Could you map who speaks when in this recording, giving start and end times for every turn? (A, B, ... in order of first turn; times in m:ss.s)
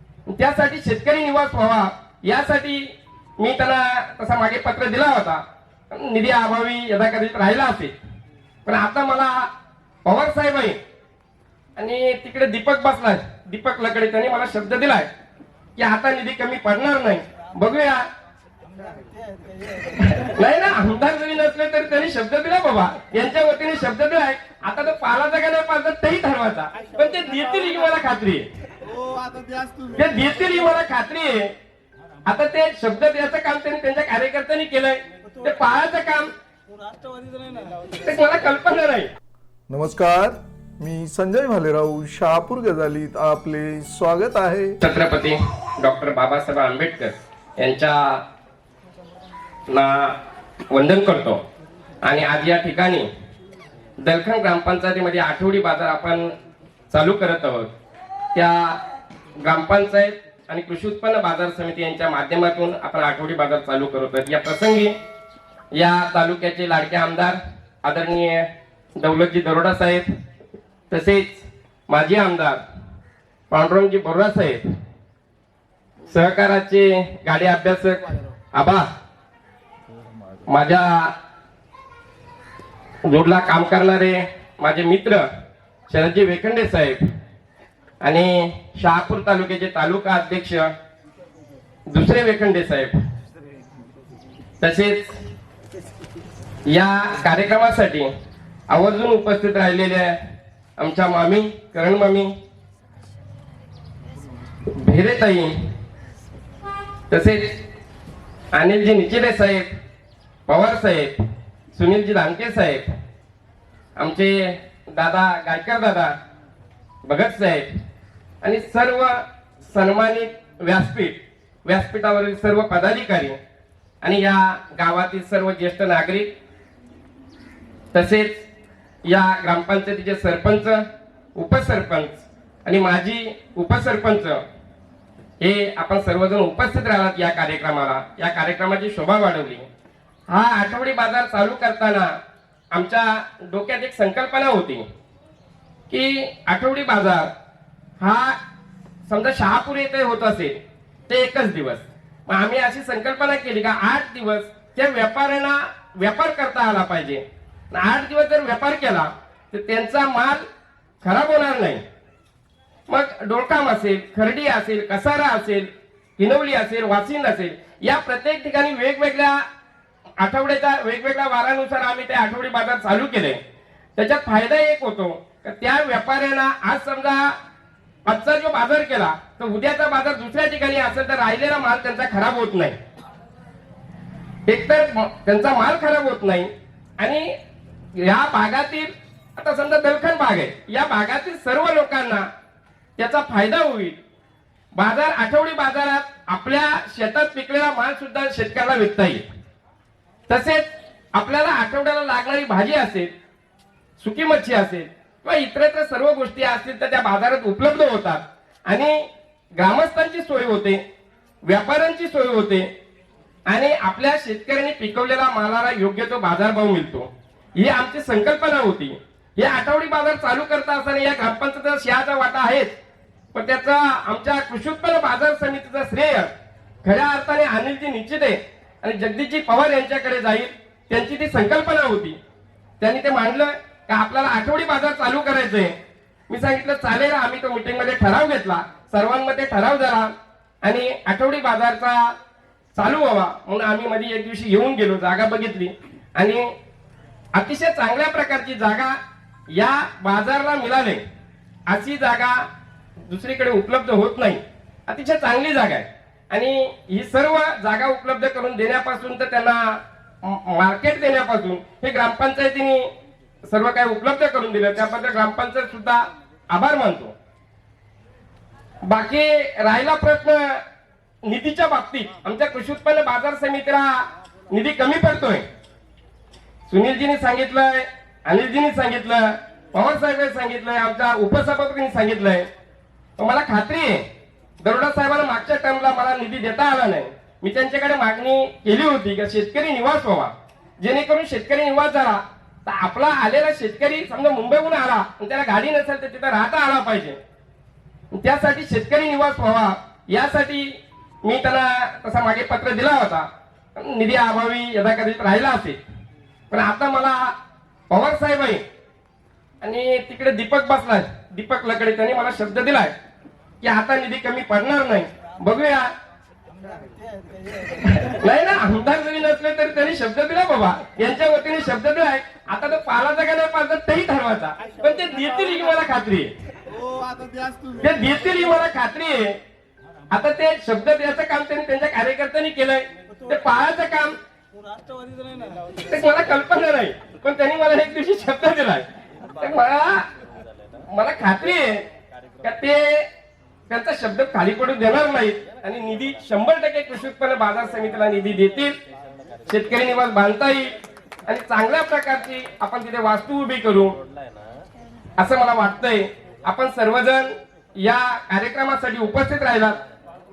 0:00.3-0:07.9 A
0:08.6-0:09.5 A
0:10.0-0:10.8 A
0:11.8-0:15.1 A
0:15.8-0:18.0 A
0:19.2-0:19.9 B
0:20.0-0:28.5 A
0:28.8-0:29.9 B
0:29.9-0:31.5 A
0:32.2-0:36.3 A
0:36.8-0:37.9 B
0:37.9-0:39.1 A
0:39.7-0:44.8 C
0:44.8-0:48.2 A
0:49.7-0:50.2 A
0:50.7-0:51.4 A
0:52.0-0:53.1 A
0:54.0-0:56.3 A
0:56.9-0:57.7 A
0:58.3-0:58.8 A
0:59.4-1:04.9 A
1:05.7-1:10.1 A
1:10.9-1:12.6 A
1:13.5-1:14.6 A
1:16.1-1:18.9 A
1:20.4-1:21.1 A
1:23.0-1:25.2 A
1:25.9-1:27.0 A
1:28.0-1:30.7 A
1:31.9-1:32.9 A
1:34.6-1:35.1 A
1:36.7-1:38.1 A
1:38.7-1:40.2 A
1:40.8-1:42.3 A
1:44.7-1:45.5 A
1:47.1-1:47.6 A
1:48.5-1:49.7 A
1:50.5-1:51.2 A
1:51.8-1:52.9 A
1:54.0-1:56.1 A
1:57.0-1:57.7 A
1:58.4-2:03.4 A
2:04.0-2:06.3 A
2:07.9-2:08.4 A
2:09.1-2:10.8 A
2:11.4-2:14.4 A
2:15.4-2:19.7 A
2:20.3-2:22.1 A
2:22.7-2:24.8 A
2:25.9-2:27.3 A
2:28.0-2:28.4 A
2:29.1-2:40.4 A
2:41.0-2:41.8 A
2:42.9-2:49.4 A
2:50.2-2:53.4 A
2:54.0-2:57.3 A
2:58.1-3:02.8 A
3:04.5-3:07.3 A
3:08.0-3:12.3 A
3:13.0-3:14.0 A
3:14.7-3:19.2 A
3:20.3-3:23.1 A
3:24.0-3:29.0 A
3:29.6-3:30.8 A
3:31.4-3:32.7 A
3:33.5-3:42.7 A
3:43.3-3:46.3 A
3:46.8-3:52.2 A
3:52.8-3:55.7 A
3:56.3-4:00.1 A
4:00.6-4:02.1 A
4:02.8-4:06.5 A
4:07.3-4:09.0 A
4:09.5-4:11.0 A
4:11.7-4:12.5 A
4:13.1-4:22.9 A
4:23.4-4:27.1 A
4:28.8-4:30.6 A
4:31.2-4:35.4 A
4:36.7-4:42.5 A
4:43.2-4:44.0 A
4:44.6-4:57.2 A
4:58.1-5:05.8 A
5:06.5-5:07.3 A
5:07.9-5:08.6 A
5:09.6-5:12.9 A
5:13.6-5:15.9 A
5:16.9-5:17.8 B
5:17.8-5:26.3 A
5:26.7-5:27.9 B
5:27.8-5:29.4 A
5:30.1-5:34.2 A
5:34.6-5:35.7 B
5:35.8-5:40.1 A
5:40.9-5:41.8 A
5:42.4-5:43.1 A
5:43.7-5:48.8 A
5:49.5-5:54.0 A
5:55.2-5:59.8 A